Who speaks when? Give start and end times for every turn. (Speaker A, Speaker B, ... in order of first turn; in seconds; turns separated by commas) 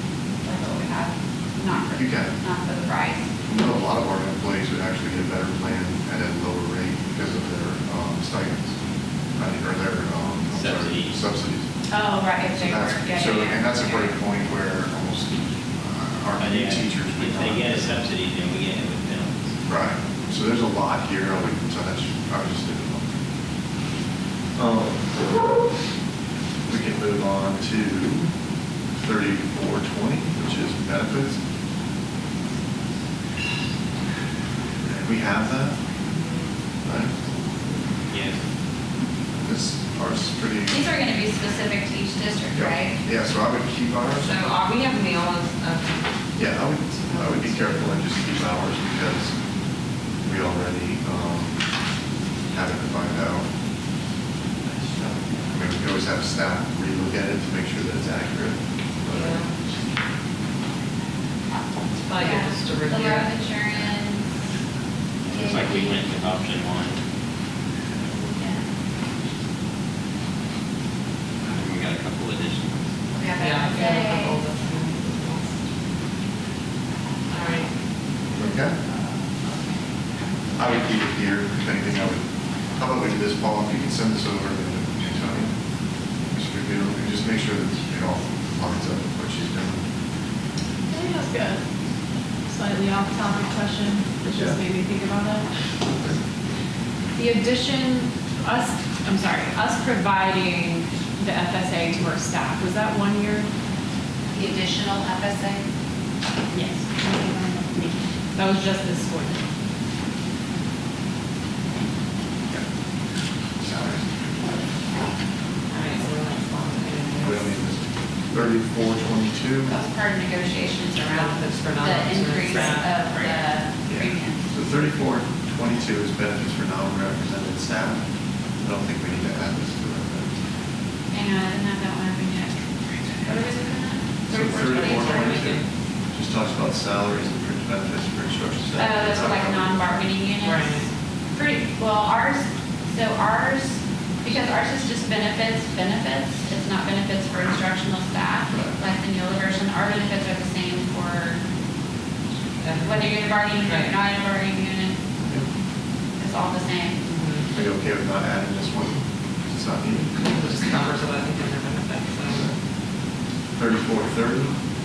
Speaker A: 0.4-3.3, Speaker B: 1.7-2.3, Speaker B: 3.4-8.8, Speaker B: 9.3-11.7, Speaker C: 10.5-11.2, Speaker A: 11.9-14.1, Speaker B: 12.5-18.1, Speaker C: 16.4-19.6, Speaker B: 19.6-23.1, Speaker B: 24.6-25.2, Speaker B: 26.7-28.3, Speaker B: 28.9-31.4, Speaker B: 34.8-35.8, Speaker D: 36.0-36.5, Speaker B: 36.8-37.1, Speaker C: 38.1-38.4, Speaker B: 39.3-40.9, Speaker A: 40.7-43.0, Speaker B: 42.5-44.3, Speaker D: 44.2-46.1, Speaker B: 46.4-49.3, Speaker D: 46.9-48.1, Speaker B: 50.2-51.6, Speaker B: 52.5-53.5, Speaker B: 55.5-59.7, Speaker D: 59.1-59.5, Speaker D: 61.9-63.4, Speaker A: 62.2-64.3, Speaker C: 65.2-67.0, Speaker A: 65.3-65.8, Speaker A: 68.2-68.7, Speaker C: 71.4-72.9, Speaker A: 73.1-74.4, Speaker D: 73.4-75.6, Speaker D: 77.3-77.7, Speaker B: 78.3-78.8, Speaker B: 80.5-85.5, Speaker B: 86.3-89.8, Speaker E: 90.9-91.6, Speaker E: 92.5-95.5, Speaker E: 97.2-103.5, Speaker A: 104.3-105.7, Speaker E: 106.5-109.4, Speaker B: 113.6-114.3, Speaker D: 115.7-117.6, Speaker B: 117.2-119.8, Speaker A: 119.7-124.5, Speaker D: 121.0-123.4, Speaker B: 123.9-128.1, Speaker B: 128.6-130.3, Speaker A: 131.1-134.1, Speaker B: 134.3-139.8, Speaker D: 134.3-135.7, Speaker A: 134.7-135.4, Speaker A: 138.8-151.4, Speaker D: 140.4-140.9, Speaker D: 152.6-153.9, Speaker A: 152.8-155.0, Speaker B: 155.2-155.5, Speaker A: 156.2-157.1, Speaker D: 157.1-157.5, Speaker B: 157.5-160.4, Speaker D: 160.0-162.4, Speaker B: 162.3-162.6, Speaker B: 163.6-164.5